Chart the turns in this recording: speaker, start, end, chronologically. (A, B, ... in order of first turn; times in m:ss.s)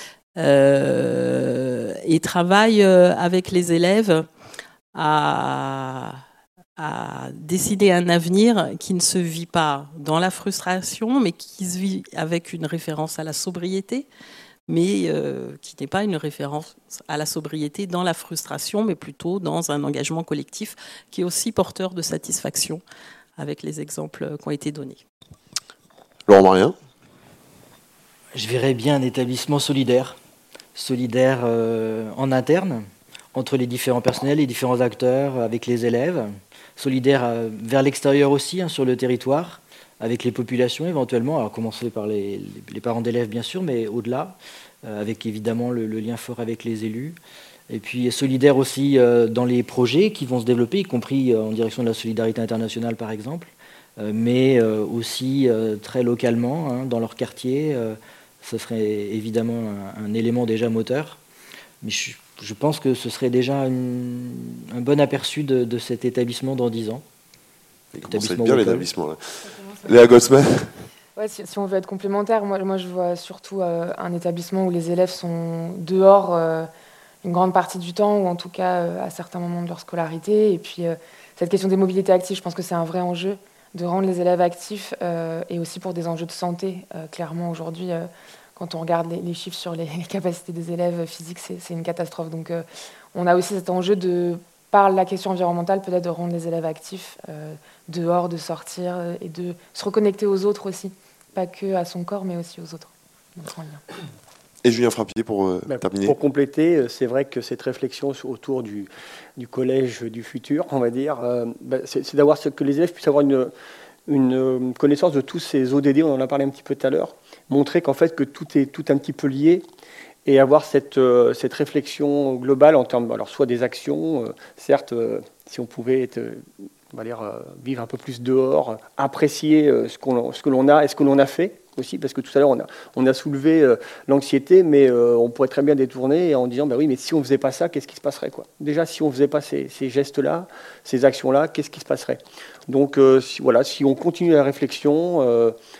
0:00.4-0:04.3 A
0:04.9-0:06.2 A
0:06.8-0:14.1 A
0:14.7-0:22.8 A
0:23.4-0:25.0 A
0:26.3-0:26.8 B
0:28.3-0:30.2 C
0:30.7-0:47.2 C
0:47.7-1:01.2 C
1:01.8-1:07.0 C
1:07.9-1:10.8 B
1:08.1-1:08.9 C
1:11.2-1:16.7 D
1:17.2-1:43.8 D
1:44.6-1:46.2 B
1:45.7-1:53.5 E
1:54.1-1:59.6 E
2:00.2-2:25.6 E